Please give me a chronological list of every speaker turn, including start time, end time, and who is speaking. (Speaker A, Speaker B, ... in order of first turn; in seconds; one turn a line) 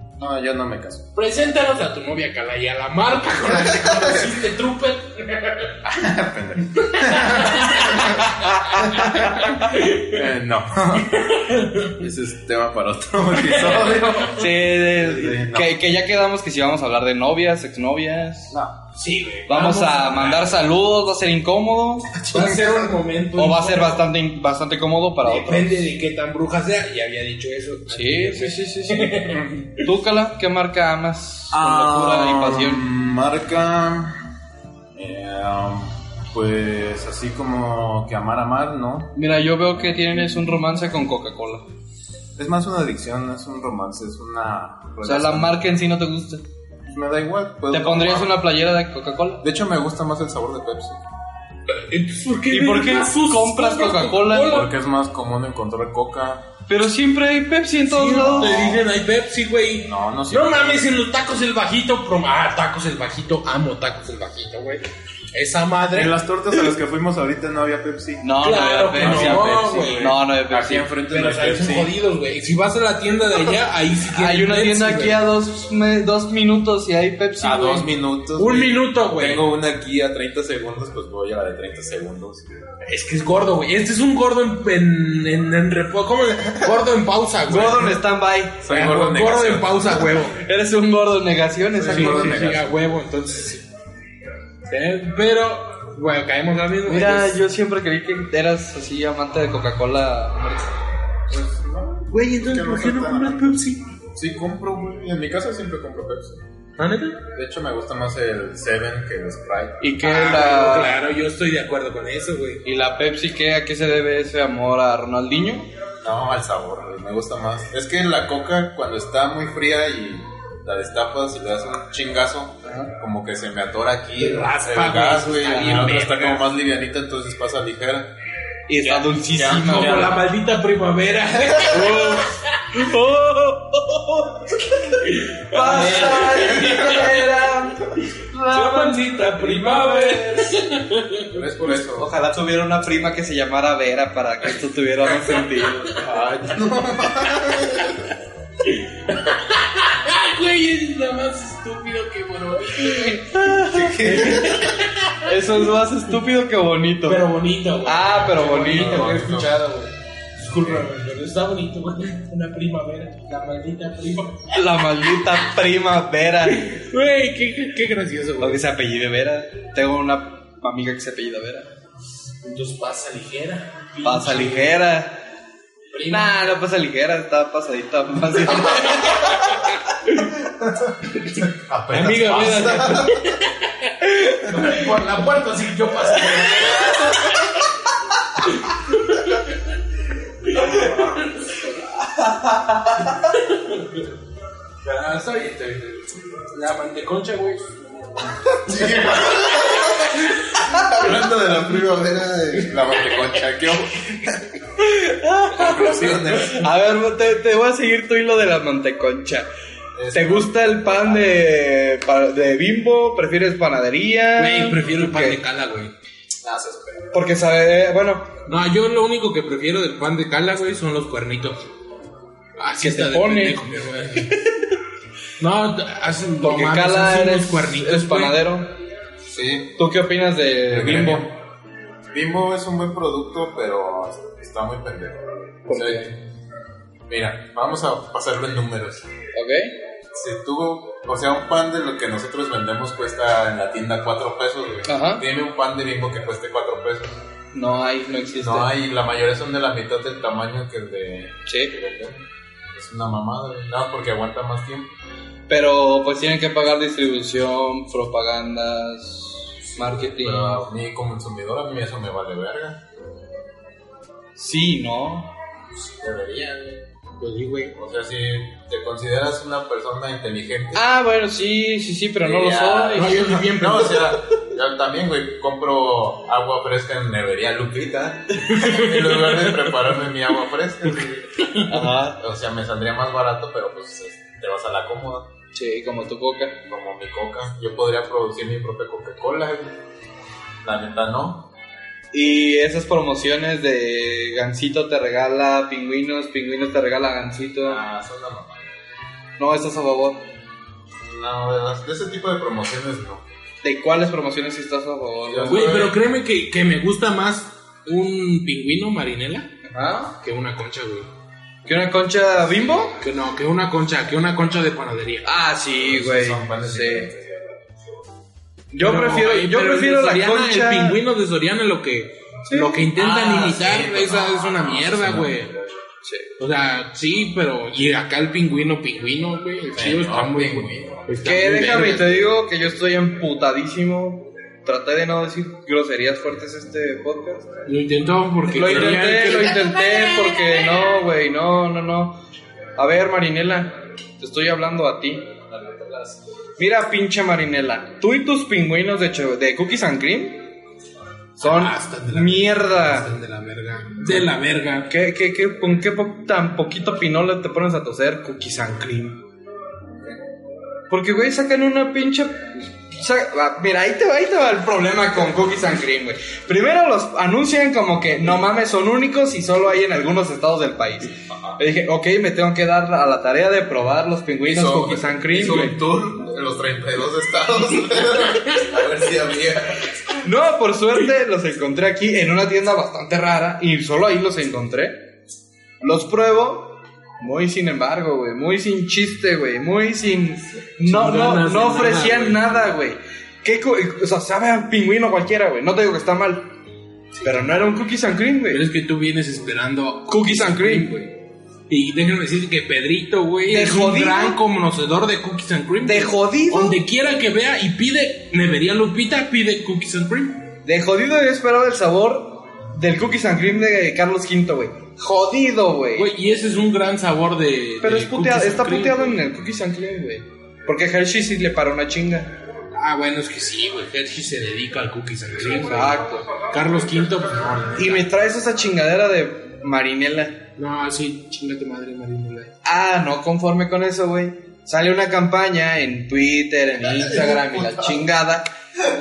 Speaker A: 0.2-1.1
Speaker B: 1.1-5.8
Speaker A: 3.5-4.3
Speaker A: 5.8-8.2
Speaker B: 6.8-8.3
Speaker C: 8.5-9.6
Speaker B: 8.8-10.2
Speaker A: 8.8-11.3
Speaker B: 11.1-12.0
Speaker A: 11.8-15.8
Speaker B: 13.4-14.3
Speaker C: 14.3-18.6
Speaker A: 18.5-18.8
Speaker B: 18.9-20.6
Speaker C: 19.5-22.6
Speaker B: 22.2-24.1
Speaker C: 23.4-25.9
Speaker B: 25.2-29.9
Speaker C: 27.9-32.9
Speaker A: 31.5-34.2
Speaker A: 34.9-39.1
Speaker C: 39.2-41.6
Speaker A: 42.4-45.6
Speaker C: 45.0-46.4
Speaker A: 46.9-48.4
Speaker C: 47.7-49.4
Speaker A: 49.4-51.0
Speaker B: 51.7-54.7
Speaker C: 52.5-54.7
Speaker A: 54.5-56.5
Speaker C: 56.7-58.8
Speaker B: 57.9-66.2
Speaker A: 58.4-58.6
Speaker A: 59.9-60.9
Speaker A: 65.9-68.3
Speaker C: 68.2-70.9
Speaker B: 68.4-70.2
Speaker A: 68.9-71.9
Speaker B: 71.0-75.2
Speaker C: 74.1-77.9
Speaker A: 77.4-82.5
Speaker B: 78.4-79.4
Speaker B: 82.8-88.0
Speaker C: 87.5-88.7
Speaker A: 88.6-90.0
Speaker B: 88.7-90.4
Speaker C: 90.3-92.6
Speaker A: 91.7-92.7
Speaker B: 91.9-93.7
Speaker B: 94.7-97.3
Speaker C: 96.9-100.7
Speaker A: 101.3-106.4
Speaker B: 102.1-103.8
Speaker B: 106.8-107.2
Speaker A: 107.3-109.8
Speaker C: 109.8-111.0
Speaker B: 110.0-112.6
Speaker C: 112.7-115.7
Speaker A: 116.0-128.1
Speaker B: 124.2-126.5
Speaker C: 128.7-130.2
Speaker A: 128.9-130.1
Speaker B: 129.4-132.4
Speaker C: 131.7-140.5
Speaker B: 135.0-137.2
Speaker B: 138.5-141.4
Speaker A: 141.3-142.1
Speaker C: 141.8-146.1
Speaker A: 146.0-148.1
Speaker B: 147.2-148.0
Speaker B: 148.6-153.5
Speaker C: 153.2-154.5
Speaker A: 153.7-154.8
Speaker B: 154.0-155.3
Speaker C: 155.2-157.3
Speaker B: 157.1-164.5
Speaker C: 157.8-159.2
Speaker A: 158.6-159.5
Speaker C: 164.5-166.8
Speaker B: 166.4-168.6
Speaker C: 168.4-171.7
Speaker B: 172.4-174.8
Speaker C: 174.0-175.2
Speaker B: 175.9-176.4
Speaker C: 176.1-179.7
Speaker B: 178.7-180.3
Speaker B: 181.2-187.4
Speaker A: 181.5-183.2
Speaker B: 188.5-189.4
Speaker B: 190.5-191.2
Speaker B: 193.4-194.0
Speaker B: 194.8-198.7
Speaker A: 198.5-204.5
Speaker C: 204.8-209.5
Speaker A: 205.5-206.7
Speaker A: 210.0-211.3
Speaker C: 210.1-215.4
Speaker B: 214.4-215.9
Speaker A: 216.4-217.1
Speaker C: 217.1-218.3
Speaker B: 218.5-221.7
Speaker B: 222.6-224.4
Speaker C: 222.8-223.7
Speaker B: 225.4-228.4
Speaker C: 226.4-228.7
Speaker A: 229.3-229.7
Speaker C: 229.8-231.3
Speaker A: 230.7-231.3
Speaker A: 232.1-236.2
Speaker C: 235.7-236.1
Speaker A: 237.1-239.1
Speaker C: 239.3-239.7
Speaker A: 240.1-247.2
Speaker C: 244.9-245.2
Speaker C: 247.5-248.7
Speaker A: 248.4-254.9
Speaker C: 251.5-251.7
Speaker C: 255.5-260.6
Speaker A: 259.8-262.8
Speaker C: 264.4-265.3
Speaker A: 265.8-266.9
Speaker B: 267.2-267.7
Speaker A: 267.7-270.9
Speaker C: 270.8-273.2
Speaker A: 272.2-285.3
Speaker B: 272.9-274.1
Speaker B: 278.5-279.6
Speaker B: 281.4-281.7
Speaker C: 281.7-282.2
Speaker C: 285.6-286.6
Speaker A: 286.6-289.8
Speaker A: 290.6-291.4
Speaker C: 292.1-297.8
Speaker A: 297.7-298.7
Speaker C: 299.4-300.2
Speaker A: 301.1-303.2
Speaker C: 303.6-305.8
Speaker A: 305.2-306.0
Speaker B: 305.5-309.5
Speaker C: 309.7-310.1
Speaker B: 310.2-311.1
Speaker C: 311.7-313.0
Speaker B: 313.0-315.3
Speaker C: 315.2-317.1
Speaker A: 315.8-317.6
Speaker C: 318.7-321.0
Speaker B: 318.8-325.5
Speaker C: 322.5-322.7
Speaker A: 323.0-325.8
Speaker C: 326.0-326.3
Speaker B: 326.4-332.1
Speaker A: 329.7-331.0
Speaker C: 331.2-337.5
Speaker B: 337.7-339.8
Speaker C: 338.5-342.1
Speaker C: 342.8-345.2
Speaker A: 345.5-346.2
Speaker C: 346.6-350.4
Speaker B: 351.4-354.9
Speaker C: 351.4-353.1
Speaker C: 354.9-359.2
Speaker C: 360.9-375.8
Speaker A: 374.5-380.2
Speaker C: 380.2-385.0
Speaker C: 385.8-396.5
Speaker B: 390.8-392.4
Speaker B: 397.2-397.5
Speaker C: 397.2-398.6
Speaker B: 398.5-401.1
Speaker C: 400.1-400.9
Speaker B: 401.7-410.4
Speaker C: 403.5-404.4
Speaker C: 405.8-406.8
Speaker C: 410.6-416.1
Speaker B: 416.0-419.2
Speaker C: 417.8-422.3
Speaker B: 422.8-428.1
Speaker C: 425.7-426.4
Speaker C: 427.8-430.4
Speaker B: 430.6-432.5
Speaker C: 432.6-438.5
Speaker A: 437.1-437.8